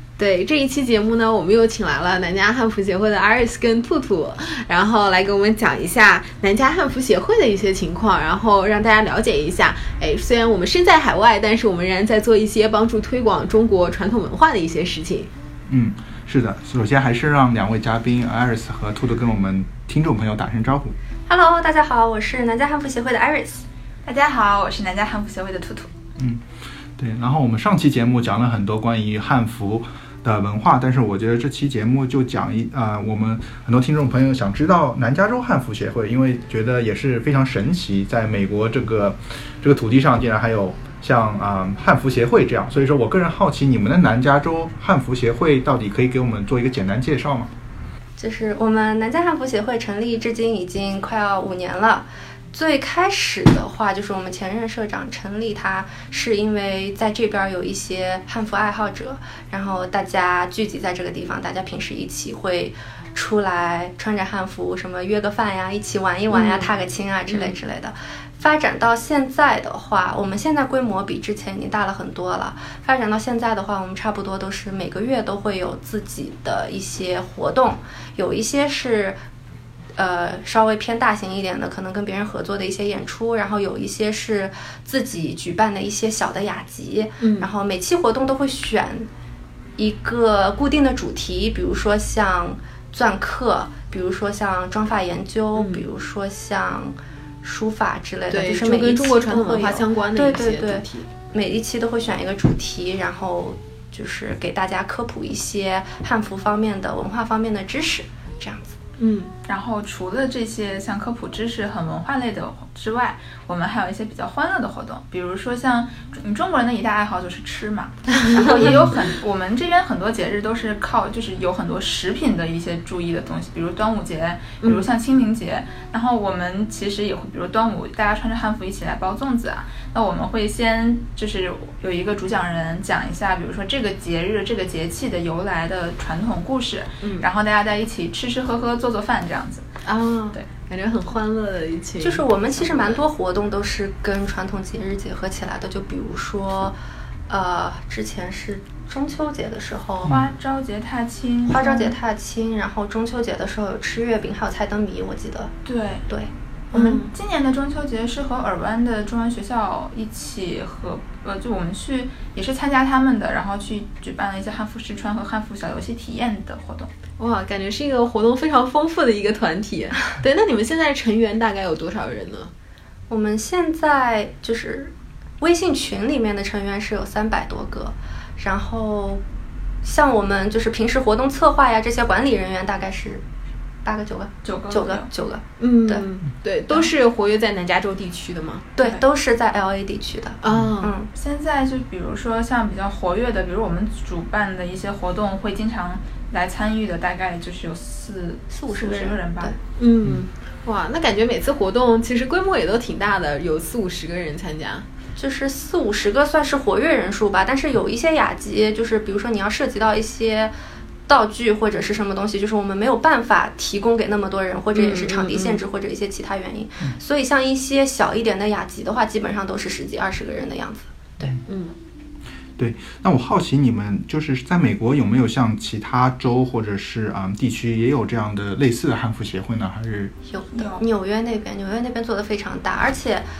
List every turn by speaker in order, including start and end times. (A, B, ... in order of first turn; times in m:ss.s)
0:00.2-0:15.3 A
0:15.7-0:20.9 B
0:21.3-0:23.6 C
0:24.0-0:25.9 D
0:26.2-0:26.4 B
0:27.0-0:47.5 B
0:48.2-1:19.2 C
1:06.3-1:06.7 A
1:07.3-1:07.6 A
1:20.0-1:29.1 C
1:27.2-1:27.5 A
1:29.8-1:48.8 C
1:35.6-1:35.8 A
1:38.3-1:41.1 A
1:49.0-1:49.3 A
1:49.5-2:19.7 D
1:58.2-1:58.8 A
2:19.8-2:23.0 A
2:22.0-2:26.8 C
2:27.3-2:30.1 C
2:30.1-2:32.0 D
2:31.5-2:35.5 C
2:35.6-2:36.0 D
2:36.7-2:46.9 D
2:36.7-2:37.1 A
2:47.2-2:52.5 A
2:53.1-2:59.2 C
2:59.8-3:03.2 C
3:03.8-3:06.0 C
3:04.4-3:05.1 D
3:05.6-3:08.7 A
3:08.8-3:11.1 C
3:10.4-3:10.9 A
3:11.1-3:19.5 D
3:18.5-3:19.6 C
3:19.8-3:24.8 A
3:25.2-3:30.5 C
3:31.1-3:41.4 C
3:34.7-3:35.6 A
3:41.5-3:41.7 A
3:42.6-3:50.2 B
3:50.3-3:53.2 C
3:50.5-3:50.8 D